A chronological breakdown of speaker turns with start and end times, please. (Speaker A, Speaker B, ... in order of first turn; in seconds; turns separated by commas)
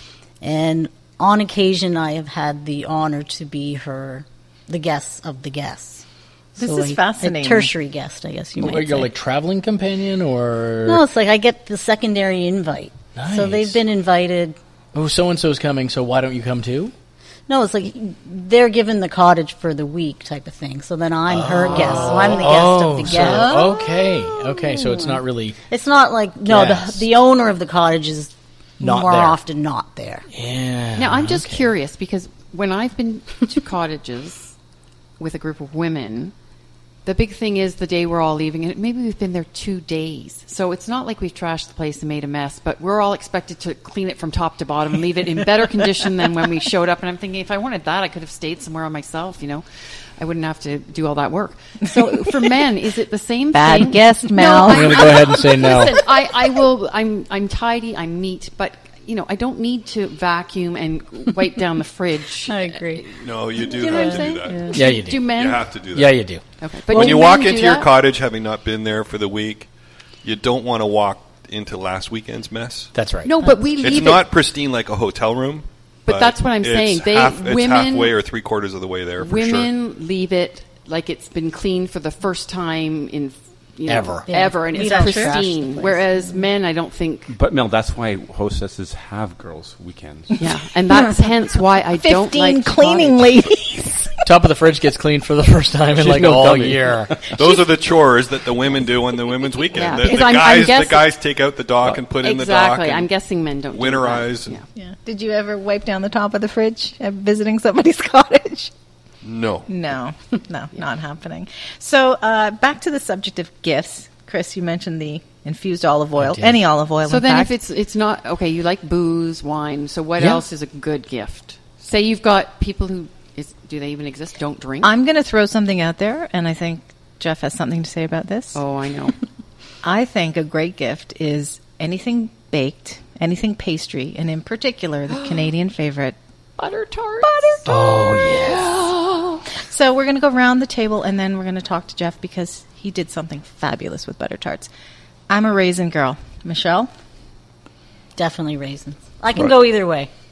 Speaker A: 0.4-6.0, Speaker B: 6.6-7.7, Speaker A: 6.6-9.1, Speaker C: 8.6-11.0, Speaker A: 10.8-14.6, Speaker C: 13.2-13.8, Speaker C: 14.9-16.9, Speaker A: 17.5-30.3, Speaker C: 21.3-25.6, Speaker B: 23.1-23.8, Speaker C: 26.5-27.1, Speaker C: 28.8-29.4, Speaker C: 30.3-31.7, Speaker D: 31.0-34.5, Speaker D: 35.2-36.3, Speaker D: 37.0-49.7, Speaker D: 50.2-65.8, Speaker B: 53.5-55.3, Speaker C: 54.6-56.0, Speaker A: 62.5-63.1, Speaker E: 63.2-66.2, Speaker A: 63.8-64.7, Speaker C: 64.7-65.4, Speaker C: 65.9-67.2, Speaker D: 66.6-67.9, Speaker E: 66.9-69.7, Speaker E: 70.2-72.9, Speaker C: 72.9-73.5, Speaker D: 73.2-74.3, Speaker E: 73.8-79.7, Speaker D: 76.1-78.2, Speaker D: 79.2-87.3, Speaker C: 83.9-84.3, Speaker A: 84.3-86.0, Speaker F: 87.3-90.5, Speaker D: 90.4-93.3, Speaker B: 92.0-94.2, Speaker C: 94.2-97.3, Speaker F: 96.0-97.3, Speaker E: 97.3-103.1, Speaker D: 99.7-101.1, Speaker D: 102.1-104.7, Speaker E: 103.7-104.6, Speaker B: 104.8-108.7, Speaker E: 109.2-109.7, Speaker B: 109.7-117.5, Speaker C: 116.2-116.6, Speaker D: 117.0-124.9, Speaker B: 124.8-128.6, Speaker D: 128.6-129.2, Speaker B: 129.8-136.2, Speaker D: 135.1-135.5, Speaker D: 136.6-139.4, Speaker B: 137.2-137.7, Speaker C: 137.7-138.9, Speaker B: 139.6-144.7, Speaker B: 145.3-146.9, Speaker A: 148.2-150.1